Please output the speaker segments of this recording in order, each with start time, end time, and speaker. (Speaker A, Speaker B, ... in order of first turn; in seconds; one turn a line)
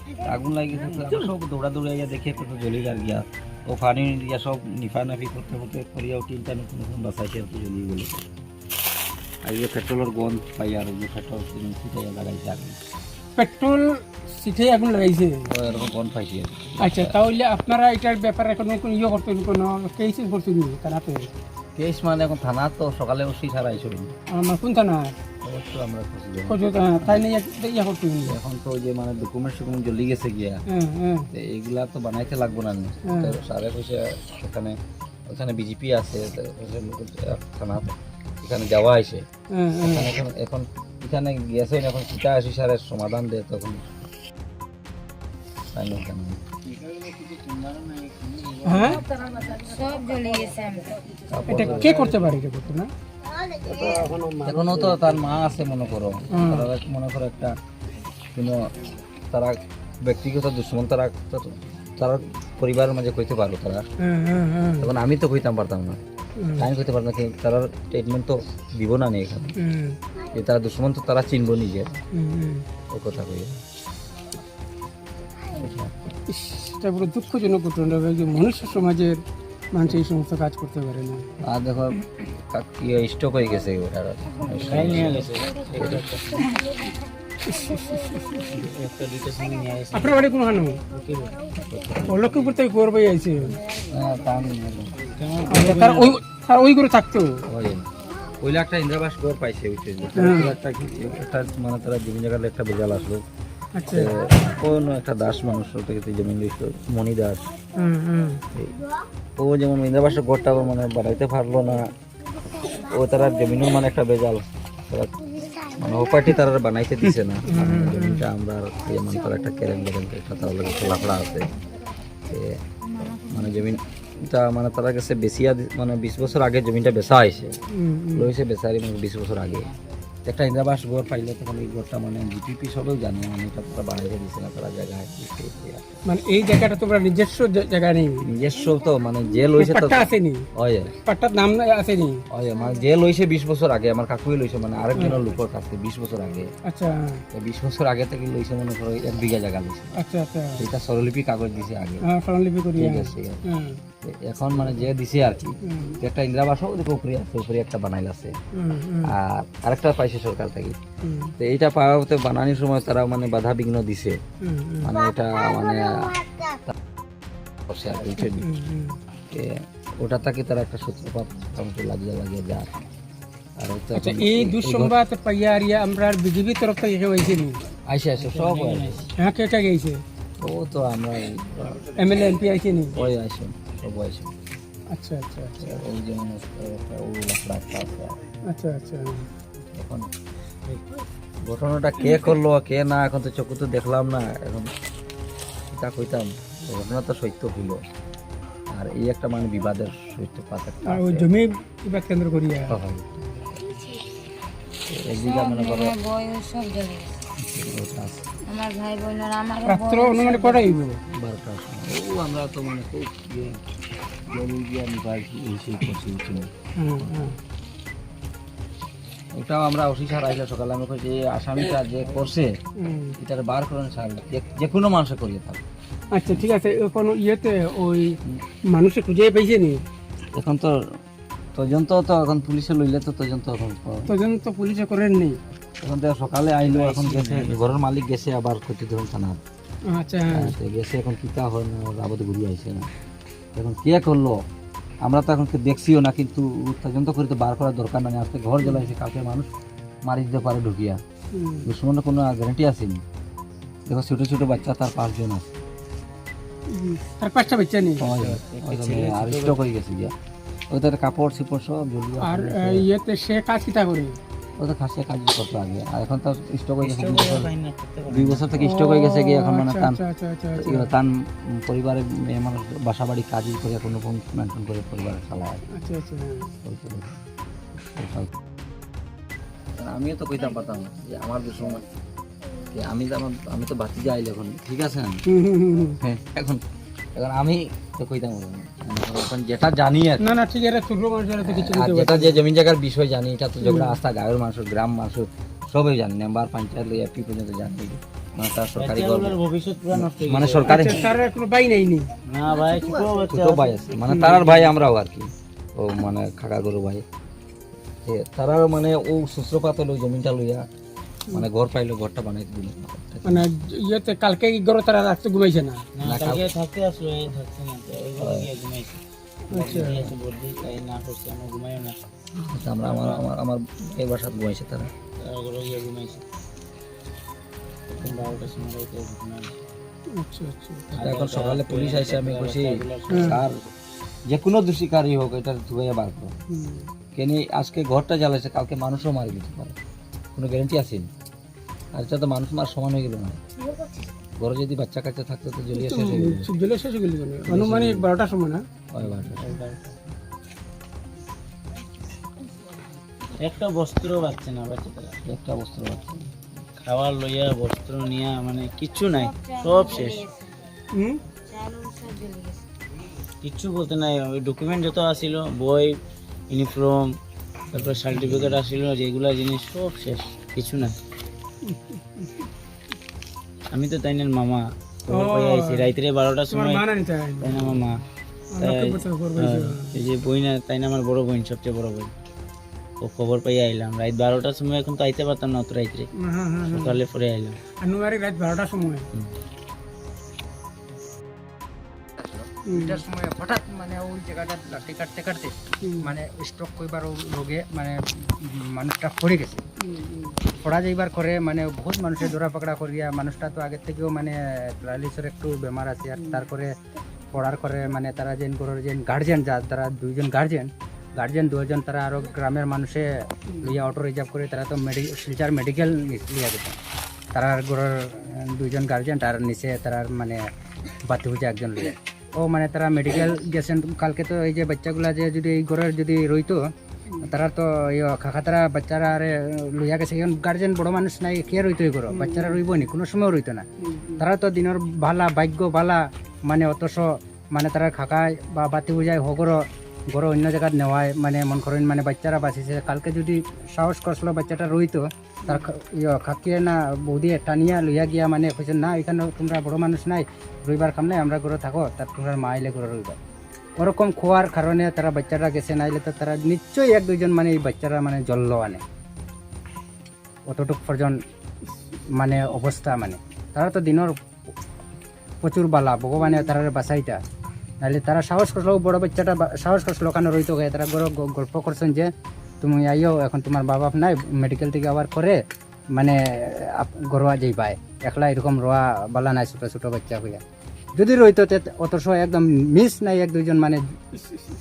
Speaker A: 0.2-8.2
Speaker A: 9.4-12.8
Speaker B: 13.3-15.5
Speaker A: 15.5-17.1
Speaker B: 16.8-21.3
Speaker A: 21.8-24.1
Speaker B: 24.3-25.1
Speaker A: 25.4-27.2
Speaker B: 26.5-28.3
Speaker A: 28.3-30.6
Speaker B: 30.7-31.3
Speaker A: 31.3-34.8
Speaker B: 33.1-33.3
Speaker A: 35.3-39.2
Speaker B: 39.5-40.1
Speaker A: 39.8-43.8
Speaker A: 45.7-46.4
Speaker C: 47.1-48.9
Speaker B: 48.6-49.0
Speaker D: 49.4-51.0
Speaker A: 51.3-52.0
Speaker B: 51.5-52.9
Speaker B: 53.7-54.8
Speaker A: 54.4-57.5
Speaker B: 56.3-56.7
Speaker A: 58.3-58.7
Speaker A: 59.3-63.9
Speaker B: 64.0-64.9
Speaker A: 64.8-66.0
Speaker B: 66.4-66.7
Speaker A: 66.6-69.5
Speaker B: 69.6-70.0
Speaker A: 70.3-72.0
Speaker B: 72.1-72.6
Speaker A: 72.9-73.6
Speaker A: 75.5-75.9
Speaker B: 76.3-79.2
Speaker B: 79.7-81.2
Speaker A: 81.4-86.1
Speaker C: 84.6-86.3
Speaker B: 87.5-88.5
Speaker C: 88.5-90.2
Speaker B: 89.9-90.8
Speaker C: 90.9-91.3
Speaker A: 91.7-92.4
Speaker B: 92.1-93.6
Speaker A: 93.9-95.0
Speaker C: 95.2-96.2
Speaker B: 95.5-97.4
Speaker A: 97.5-97.8
Speaker A: 98.4-103.2
Speaker B: 100.2-100.5
Speaker B: 103.8-104.1
Speaker A: 103.9-107.5
Speaker B: 107.8-108.4
Speaker A: 109.4-111.8
Speaker A: 112.7-115.1
Speaker A: 115.8-121.5
Speaker B: 117.5-118.2
Speaker A: 122.3-122.6
Speaker D: 122.9-123.3
Speaker A: 123.2-127.6
Speaker B: 127.8-128.3
Speaker A: 128.2-129.7
Speaker A: 130.2-136.0
Speaker B: 136.1-138.2
Speaker A: 138.3-140.9
Speaker B: 139.6-140.4
Speaker B: 141.1-142.2
Speaker A: 142.3-146.5
Speaker B: 146.7-147.2
Speaker A: 147.3-149.9
Speaker B: 150.0-150.6
Speaker A: 150.6-152.0
Speaker B: 152.1-153.8
Speaker A: 152.8-153.4
Speaker A: 154.0-158.3
Speaker B: 155.7-155.9
Speaker B: 158.5-159.1
Speaker A: 159.1-160.8
Speaker B: 161.0-161.3
Speaker A: 161.4-164.2
Speaker B: 164.4-164.9
Speaker A: 164.8-166.7
Speaker A: 167.7-168.4
Speaker B: 168.2-169.0
Speaker A: 169.3-172.7
Speaker A: 173.6-174.9
Speaker B: 173.9-177.6
Speaker A: 177.9-179.1
Speaker C: 178.2-179.1
Speaker B: 179.2-180.0
Speaker A: 180.4-181.8
Speaker B: 181.9-182.9
Speaker A: 182.9-184.3
Speaker B: 184.9-185.8
Speaker A: 185.6-188.2
Speaker B: 188.5-189.3
Speaker A: 189.7-190.1
Speaker A: 191.4-194.7
Speaker A: 195.7-197.8
Speaker A: 198.7-201.3
Speaker B: 200.8-202.8
Speaker A: 202.7-203.4
Speaker A: 204.9-205.9
Speaker D: 205.2-207.2
Speaker A: 207.4-208.2
Speaker D: 208.5-210.8
Speaker B: 209.6-211.0
Speaker A: 211.1-213.6
Speaker A: 214.3-216.5
Speaker B: 216.8-217.3
Speaker A: 219.3-222.5
Speaker B: 222.8-223.2
Speaker A: 223.2-225.6
Speaker B: 226.1-228.2
Speaker B: 228.7-229.8
Speaker A: 230.3-230.8
Speaker A: 231.5-234.1
Speaker B: 234.1-235.4
Speaker A: 235.8-239.4
Speaker C: 236.7-237.8
Speaker B: 239.9-240.5
Speaker A: 240.3-242.9
Speaker A: 243.5-244.4
Speaker A: 245.0-249.5
Speaker A: 250.1-251.0
Speaker B: 251.3-251.7
Speaker A: 251.7-253.0
Speaker A: 253.9-255.5
Speaker B: 256.7-258.1
Speaker A: 258.0-260.1
Speaker C: 258.1-259.6
Speaker A: 260.7-262.8
Speaker B: 262.2-264.2
Speaker A: 264.6-267.5
Speaker C: 266.8-268.6
Speaker A: 268.1-270.0
Speaker B: 268.6-270.9
Speaker A: 270.6-275.6
Speaker B: 275.8-276.5
Speaker A: 276.6-277.1
Speaker A: 277.9-278.3
Speaker A: 279.8-281.8
Speaker A: 282.7-285.2
Speaker B: 285.3-286.0
Speaker A: 286.0-286.6
Speaker A: 287.1-290.2
Speaker B: 290.2-292.4
Speaker A: 291.4-301.0
Speaker B: 293.6-293.9
Speaker C: 298.8-301.1
Speaker B: 300.6-302.1
Speaker C: 302.3-303.8
Speaker A: 303.3-307.0
Speaker B: 304.1-304.4
Speaker C: 304.3-304.7
Speaker A: 308.1-310.6
Speaker A: 311.3-313.4
Speaker B: 313.2-315.8
Speaker C: 316.0-321.9
Speaker A: 316.0-316.5
Speaker A: 318.2-318.5
Speaker B: 319.5-320.1
Speaker A: 322.5-324.9
Speaker C: 322.8-323.1
Speaker C: 325.2-326.2
Speaker C: 327.9-329.6
Speaker B: 330.2-330.9
Speaker C: 330.9-333.4
Speaker A: 331.0-333.6
Speaker B: 333.1-333.4
Speaker A: 334.3-336.4
Speaker B: 336.5-336.9
Speaker A: 337.1-339.7
Speaker A: 340.4-341.1
Speaker A: 341.9-343.4
Speaker A: 344.4-346.5
Speaker B: 345.7-348.6
Speaker A: 347.5-348.0
Speaker A: 348.9-349.5
Speaker C: 349.1-349.8
Speaker C: 353.4-355.2
Speaker A: 355.3-356.3
Speaker C: 356.8-360.2
Speaker D: 359.2-360.5
Speaker B: 360.9-361.2
Speaker D: 361.5-362.6
Speaker C: 363.4-365.9
Speaker C: 366.5-367.1
Speaker C: 367.7-371.0
Speaker A: 367.8-368.6
Speaker B: 371.7-372.5
Speaker C: 373.7-376.8
Speaker B: 375.1-375.9
Speaker B: 376.5-377.7
Speaker C: 377.4-378.0
Speaker B: 378.6-379.9
Speaker C: 378.6-382.1
Speaker C: 383.0-386.1
Speaker B: 386.2-387.0
Speaker C: 386.7-387.6
Speaker B: 387.8-389.1
Speaker E: 392.2-399.6
Speaker B: 392.7-393.0
Speaker B: 399.8-400.4
Speaker E: 400.6-406.7
Speaker E: 407.3-413.1
Speaker E: 413.6-416.8
Speaker E: 417.3-420.4
Speaker E: 421.1-426.6
Speaker E: 427.2-433.6
Speaker B: 432.1-432.6
Speaker B: 433.8-434.2
Speaker E: 434.2-453.2
Speaker E: 453.8-458.8
Speaker E: 460.5-461.1
Speaker E: 462.1-464.1
Speaker E: 465.4-467.2
Speaker E: 467.8-472.1
Speaker E: 472.6-475.4
Speaker E: 475.9-480.4
Speaker E: 480.9-483.8